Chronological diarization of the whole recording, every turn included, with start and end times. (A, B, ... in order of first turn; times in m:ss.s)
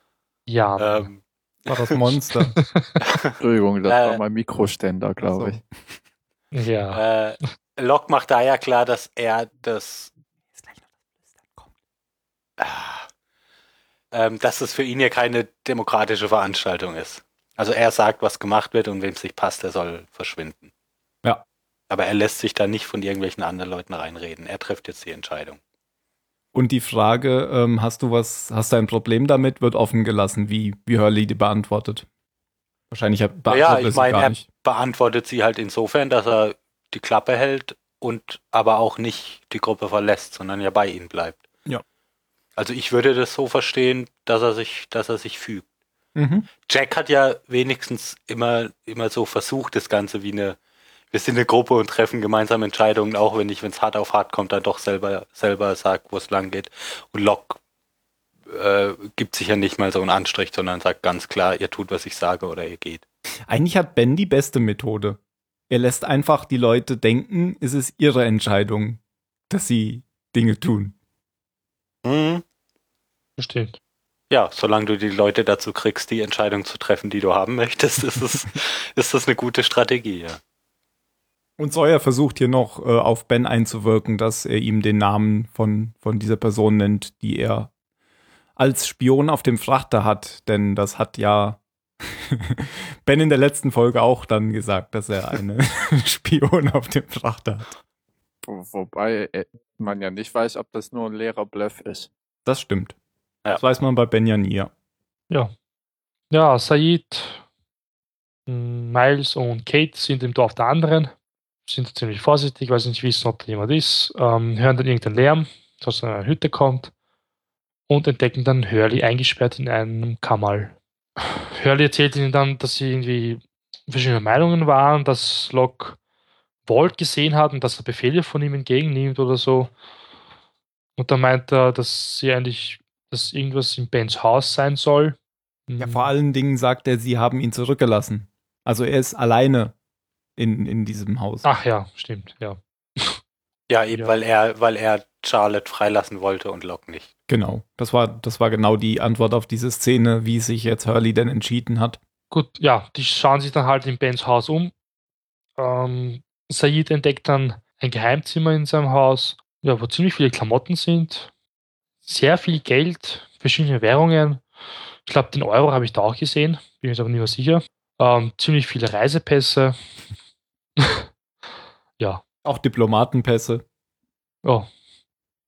0:00.5-0:01.1 A
0:00.8-0:01.7 B
0:01.7-0:02.6 C
0:02.4-0:02.9 A
0:03.0-0:03.3 B
0:03.4-0:05.6 D
0:03.8-0:04.2 B
0:05.2-0:05.6 C
0:06.5-0:07.0 A
0:06.9-0:10.1 B
0:10.6-0:10.9 C
0:11.4-0:11.7 C
0:12.6-0:13.1 B
0:14.1-0:20.7 B
0:21.9-0:25.6 B
0:26.5-0:32.1 C
0:32.9-0:34.4 C
0:33.5-0:41.4 B
0:42.6-0:45.6 B
0:46.1-0:46.5 C
0:46.6-0:50.6 B
0:51.1-0:57.6 B
0:58.5-1:03.0 B
1:03.5-1:05.2 C
1:05.7-1:10.9 C
1:12.0-1:12.4 B
1:13.4-1:13.8 A
1:14.3-1:20.4 B
1:21.6-1:27.7 C
1:28.6-1:37.7 C
1:38.4-1:42.1 D
1:42.4-1:42.9 C
1:43.5-1:44.7 C
1:46.3-1:47.4 A
1:48.5-1:51.1 A
1:51.7-1:56.9 A
1:57.9-2:06.0 A
2:06.7-2:09.7 A
2:11.0-2:15.2 A
2:15.7-2:16.1 A
2:15.8-2:19.7 C
2:20.4-2:21.5 C
2:21.4-2:23.2 A
2:23.7-2:27.1 B
2:27.3-2:32.0 C
2:32.3-2:34.7 A
2:35.6-2:41.3 A
2:42.0-2:44.4 A
2:45.0-2:49.8 A
2:50.8-2:51.1 A
2:52.4-2:53.6 C